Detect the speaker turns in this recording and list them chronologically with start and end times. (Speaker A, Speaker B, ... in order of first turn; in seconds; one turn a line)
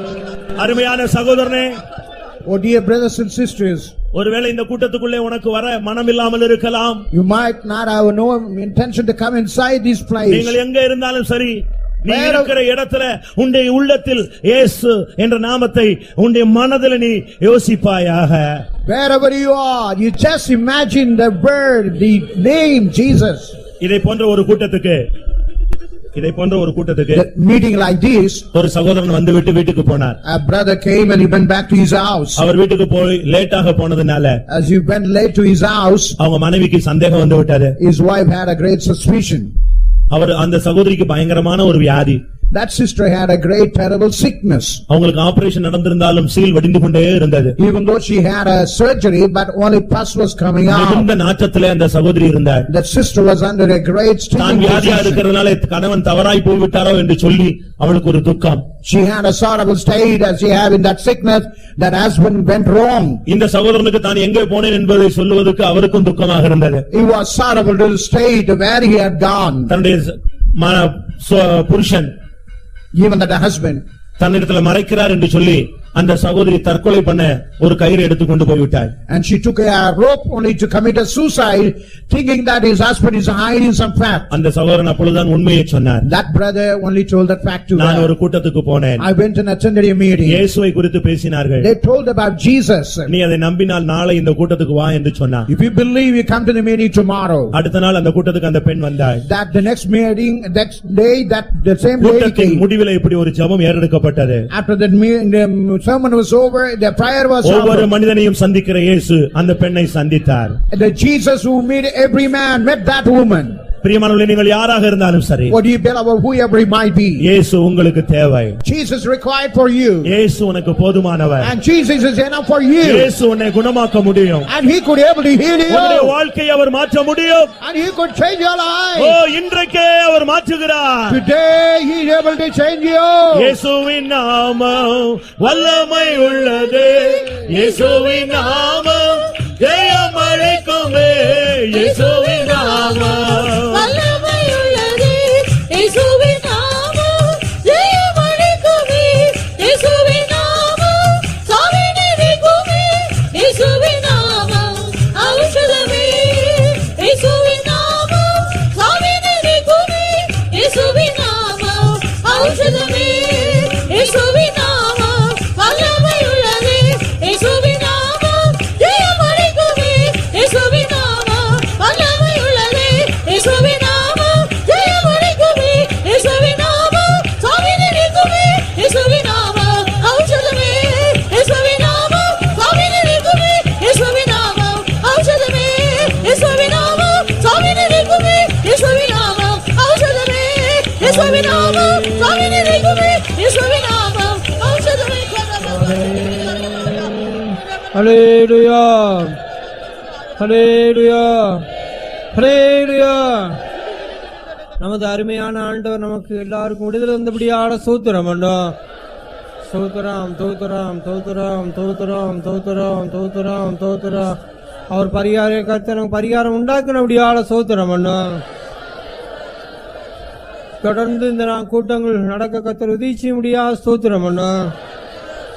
Speaker A: 0.5-1.8
Speaker B: 2.4-3.9
Speaker A: 4.1-7.0
Speaker B: 7.1-10.6
Speaker A: 10.3-18.6
Speaker B: 12.1-12.5
Speaker B: 18.9-23.5
Speaker A: 23.8-25.0
Speaker A: 26.1-27.2
Speaker B: 27.1-28.4
Speaker A: 28.5-30.2
Speaker B: 30.2-32.4
Speaker A: 32.4-34.4
Speaker B: 34.5-36.1
Speaker A: 36.2-37.8
Speaker B: 37.8-39.5
Speaker A: 40.1-42.2
Speaker B: 42.5-44.8
Speaker A: 44.9-47.5
Speaker B: 47.6-51.1
Speaker A: 50.7-52.7
Speaker B: 52.7-55.2
Speaker A: 54.4-58.7
Speaker B: 58.8-63.2
Speaker A: 63.2-66.8
Speaker B: 66.9-69.7
Speaker A: 69.7-72.1
Speaker B: 72.9-73.8
Speaker A: 74.2-78.9
Speaker B: 79.1-84.3
Speaker A: 84.3-86.1
Speaker B: 86.0-88.1
Speaker A: 87.8-89.0
Speaker B: 89.0-90.4
Speaker A: 90.2-91.7
Speaker B: 91.6-93.1
Speaker A: 93.1-95.5
Speaker B: 95.5-97.5
Speaker A: 97.5-99.2
Speaker B: 99.2-102.6
Speaker A: 102.0-104.5
Speaker B: 104.5-107.9
Speaker A: 107.4-110.6
Speaker B: 110.7-113.6
Speaker A: 113.8-115.6
Speaker B: 115.5-117.3
Speaker A: 117.2-118.6
Speaker B: 118.6-120.1
Speaker A: 120.0-121.5
Speaker B: 121.4-123.1
Speaker A: 122.8-124.5
Speaker B: 124.5-126.2
Speaker A: 125.7-127.5
Speaker B: 127.6-129.2
Speaker A: 129.0-131.2
Speaker B: 131.1-133.6
Speaker A: 133.3-143.8
Speaker C: 137.3-139.5
Speaker C: 141.7-195.7
Speaker D: 191.0-192.9
Speaker D: 195.6-199.4
Speaker D: 200.4-201.7
Speaker D: 202.3-203.6
Speaker D: 204.8-208.7
Speaker D: 209.7-214.4
Speaker D: 214.9-218.4
Speaker D: 220.8-224.7